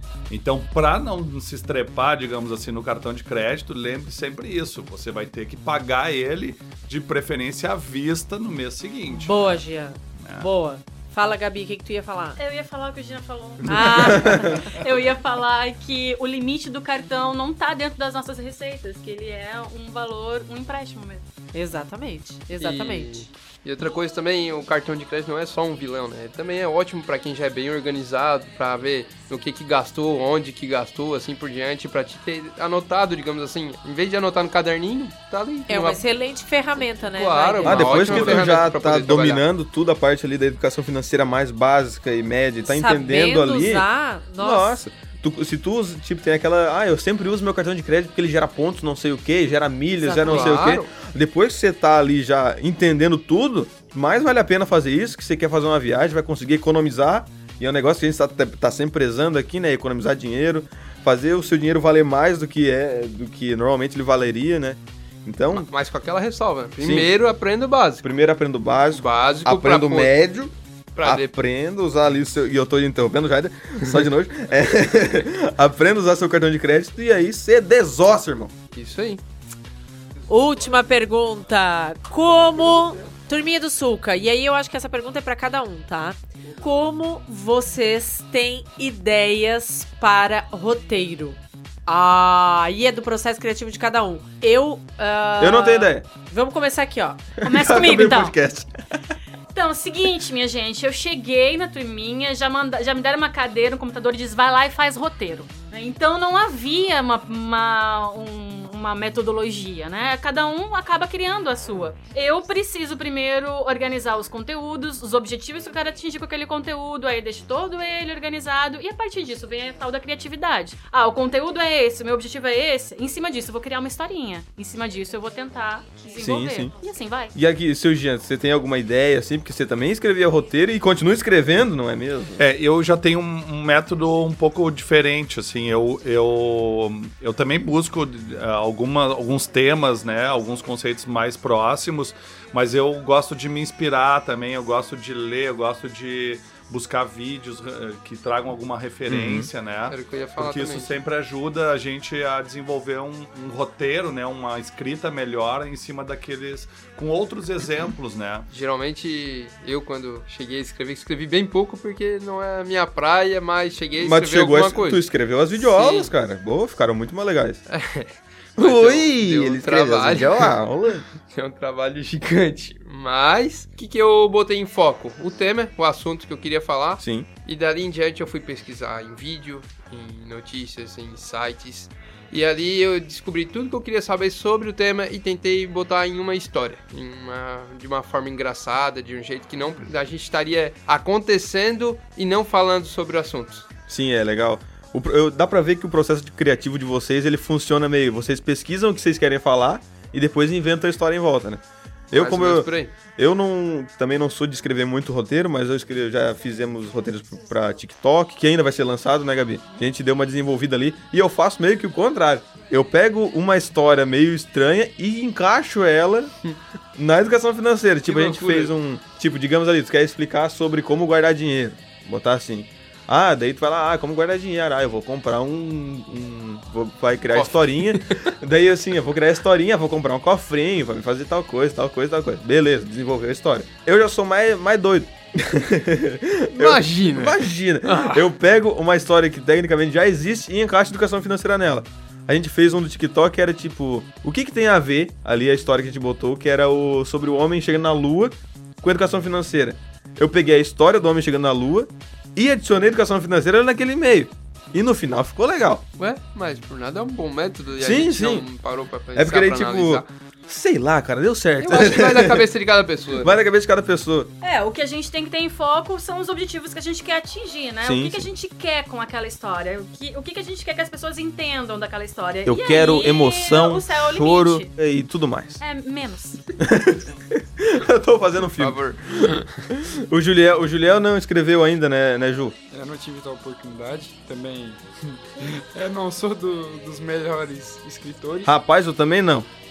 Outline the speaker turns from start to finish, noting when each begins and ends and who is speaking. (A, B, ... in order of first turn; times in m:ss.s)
0:00.3-0:09.6 A
0:09.2-0:12.4 B
0:10.2-0:10.5 A
0:12.4-0:21.2 C
0:13.6-0:14.6 B
0:14.1-0:14.4 D
0:21.5-0:23.3 B
0:22.6-0:36.0 E
0:35.7-0:38.3 B
0:37.0-0:39.4 E
0:37.6-0:43.9 D
0:38.0-0:38.6 A
0:42.6-0:44.8 B
0:44.4-1:05.7 D
0:50.0-0:50.7 B
0:50.2-0:50.9 E
1:05.5-1:08.0 E
1:06.8-1:07.1 D
1:08.0-1:18.5 D
1:08.9-1:10.2 E
1:10.9-1:11.3 E
1:18.7-1:19.2 E
1:20.3-1:37.3 B
1:35.4-1:36.0 D
1:37.4-1:38.7 D
1:37.4-1:38.3 C
1:39.5-2:07.3 C
2:06.2-2:06.7 D
2:07.3-2:12.4 D
2:12.4-2:38.5 A
2:29.1-2:29.5 D
2:29.9-2:31.0 E
2:38.5-2:45.0 E
2:44.0-2:47.6 D
2:45.6-2:46.1 E
2:47.7-2:50.5 E
2:48.6-2:51.0 D
2:51.3-3:13.6 E
2:57.0-2:57.3 D
3:13.9-3:36.3 D
3:22.1-3:22.9 E
3:37.0-4:15.8 D
3:38.1-3:38.7 E
3:47.3-3:48.2 E
3:56.6-3:58.3 E
4:16.0-4:20.1 E
4:17.8-4:18.4 D
4:19.1-4:22.5 D
4:21.6-4:23.4 E
4:23.2-4:24.3 D
4:24.4-4:34.7 C
4:27.8-4:28.2 D
4:32.4-4:35.6 D
4:35.6-4:36.4 C
4:36.6-4:42.6 D
4:38.6-4:39.5 E
4:42.7-4:48.5 F
4:48.4-4:49.5 D